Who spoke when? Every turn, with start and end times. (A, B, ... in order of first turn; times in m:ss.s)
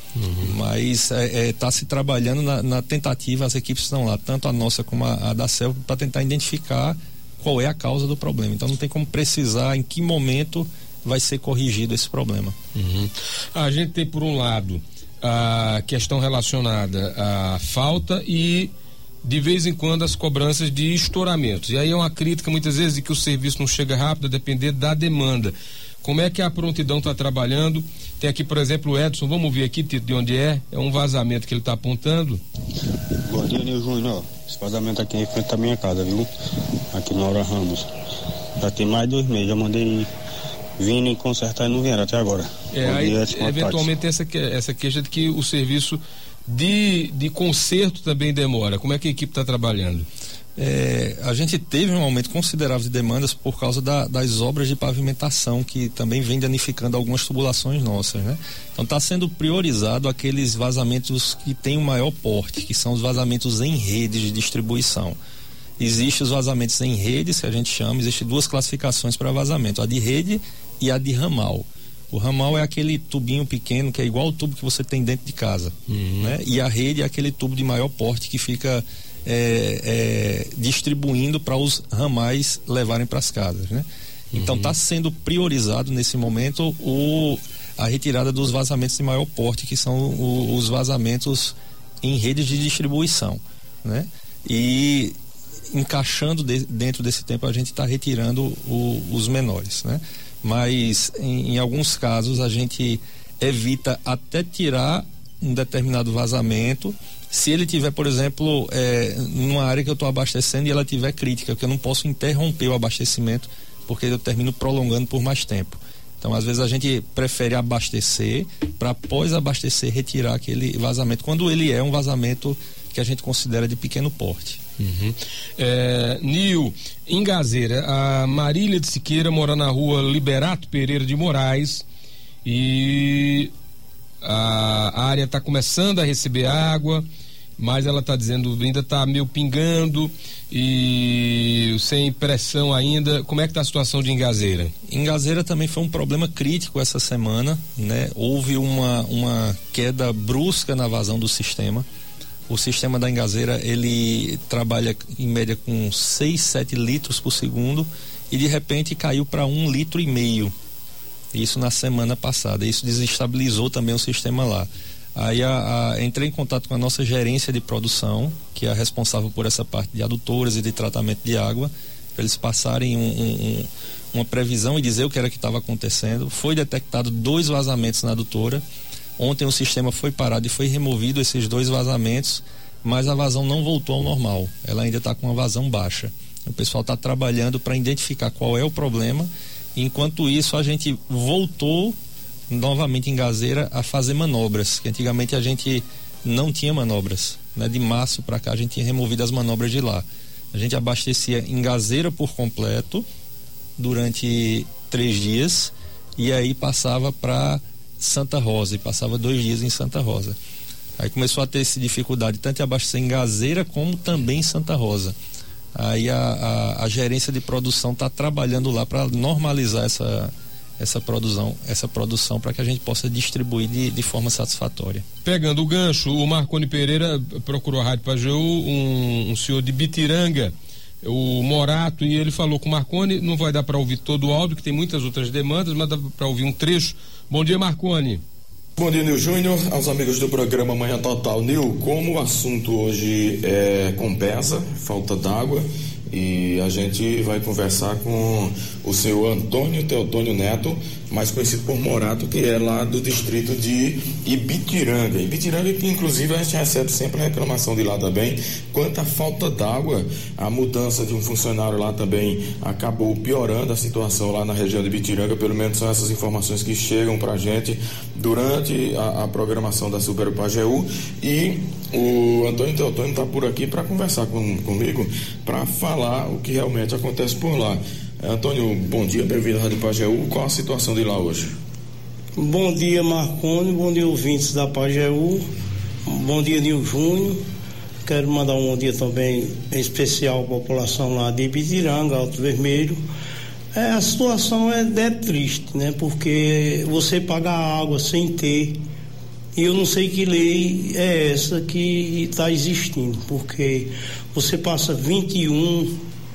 0:00.1-0:00.6 A
0:00.4-0:12.6 B
0:12.7-0:32.4 A
0:33.2-0:36.3 C
0:36.9-0:37.9 C
0:38.6-0:40.1 C
0:40.8-0:43.9 C
0:42.7-0:50.0 A
0:50.6-1:05.2 B
1:05.8-1:35.2 B
1:15.9-1:16.3 A
1:24.3-1:24.7 A
1:35.7-2:04.6 B
2:04.8-2:11.8 A
2:12.4-2:13.5 A
2:14.2-2:17.0 A
2:17.6-2:24.7 A
2:24.9-2:31.8 B
2:32.5-2:40.5 B
2:41.3-2:58.6 B
2:59.2-3:12.0 B
3:12.5-3:23.0 B
3:23.8-3:30.4 B
3:31.0-3:35.1 B
3:35.7-3:45.0 B
3:45.2-3:58.2 A
3:58.8-4:41.6 D
4:42.4-4:45.5 E
4:46.0-4:47.4 E
4:48.0-4:53.0 E
4:53.7-4:58.8 E
4:59.5-5:06.0 E